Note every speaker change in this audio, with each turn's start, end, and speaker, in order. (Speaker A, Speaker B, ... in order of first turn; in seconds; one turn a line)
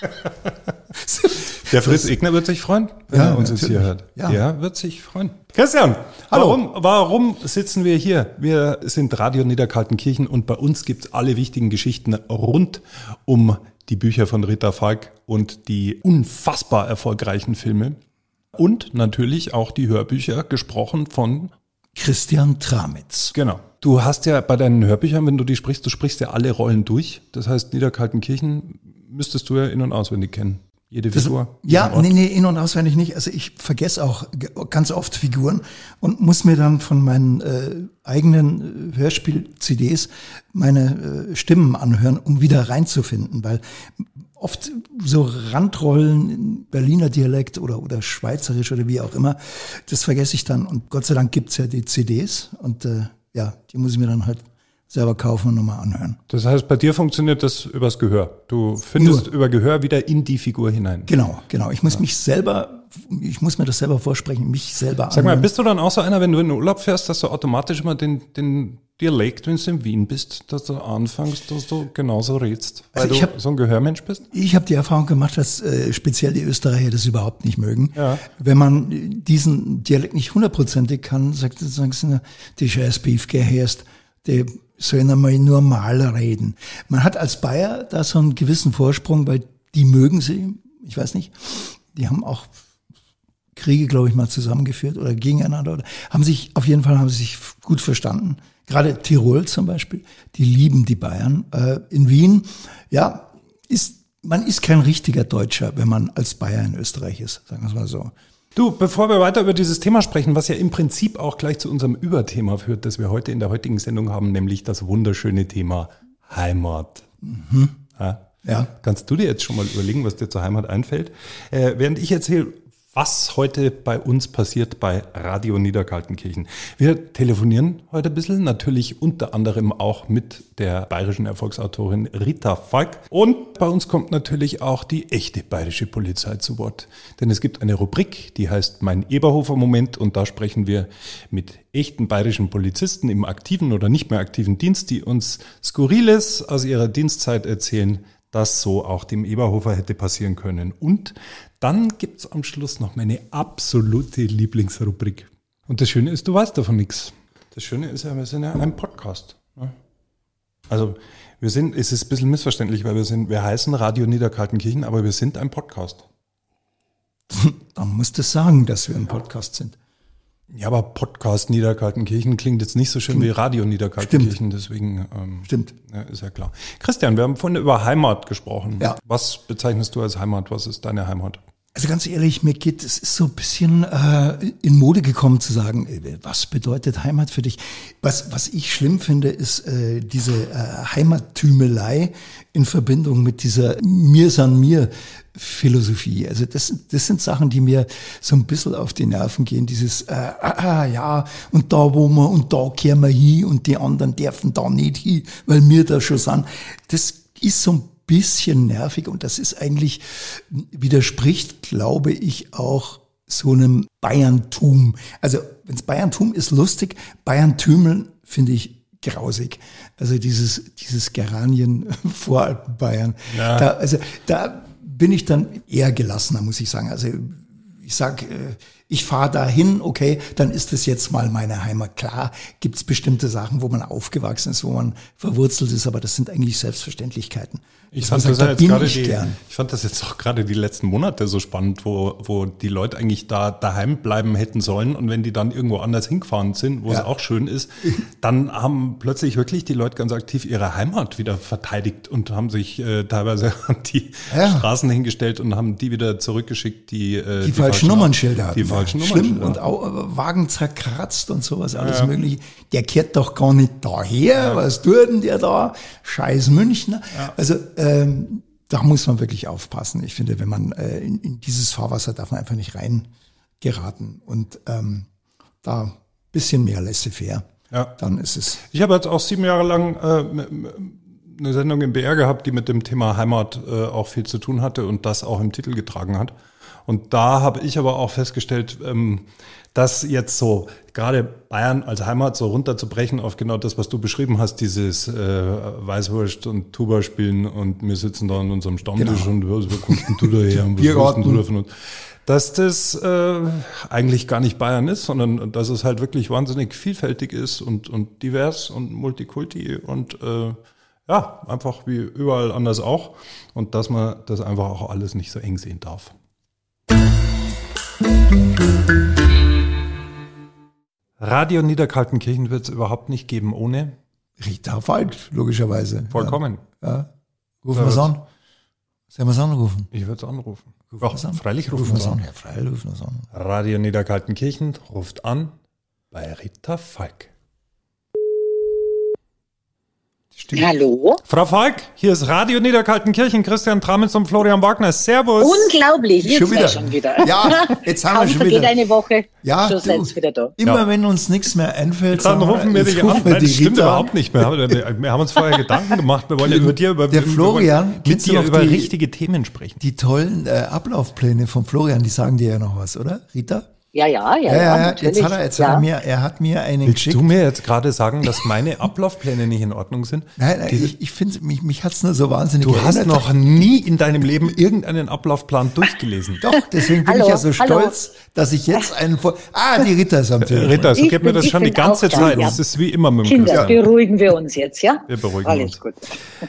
Speaker A: 0.9-2.1
Speaker B: 1.6-18.0
Speaker A: 3.1-4.4
Speaker A: 6.3-6.6
Speaker B: 18.6-21.5
Speaker A: 21.9-23.3
Speaker B: 23.4-32.1
Speaker A: 31.1-56.2
Speaker B: 56.3-61.1
Speaker A: 59.0-59.3
Speaker A: 61.1-65.5
Speaker B: 65.1-74.3
Speaker A: 73.0-73.3
Speaker A: 74.3-92.5
Speaker B: 78.0-78.2
Speaker A: 93.5-108.1
Speaker B: 108.6-117.1
Speaker A: 117.2-117.8
Speaker B: 118.0-159.8
Speaker A: 118.5-118.7
Speaker B: 160.7-166.0
Speaker A: 167.3-169.8
Speaker B: 170.5-181.4
Speaker A: 174.0-174.4
Speaker A: 175.4-175.7
Speaker A: 181.7-239.4
Speaker B: 223.3-223.7
Speaker B: 237.9-259.6
Speaker A: 254.3-254.7
Speaker A: 257.4-273.1
Speaker B: 261.8-262.1
Speaker B: 264.4-264.6
Speaker A: 273.6-275.1
Speaker A: 275.6-278.6
Speaker B: 278.7-316.1
Speaker A: 299.0-301.4
Speaker B: 321.2-324.0
Speaker A: 324.4-327.1
Speaker B: 326.1-326.6
Speaker A: 327.6-328.2
Speaker B: 327.8-328.1
Speaker A: 329.1-329.9
Speaker B: 329.9-332.2
Speaker A: 330.9-333.3
Speaker B: 333.3-335.6
Speaker B: 336.1-337.3
Speaker A: 340.4-340.7
Speaker C: 340.5-341.2
Speaker B: 341.3-345.7
Speaker C: 345.4-350.5
Speaker A: 346.2-348.8
Speaker A: 349.4-354.8
Speaker B: 352.1-359.8
Speaker A: 356.4-358.9
Speaker A: 359.8-363.7
Speaker C: 363.9-365.9
Speaker A: 364.5-367.3
Speaker B: 366.8-370.9
Speaker A: 370.4-373.9
Speaker B: 372.6-376.5
Speaker A: 376.4-381.0
Speaker C: 377.0-378.0
Speaker B: 380.4-383.9
Speaker C: 381.0-382.6
Speaker A: 382.1-382.6
Speaker C: 383.3-386.2
Speaker B: 385.1-385.8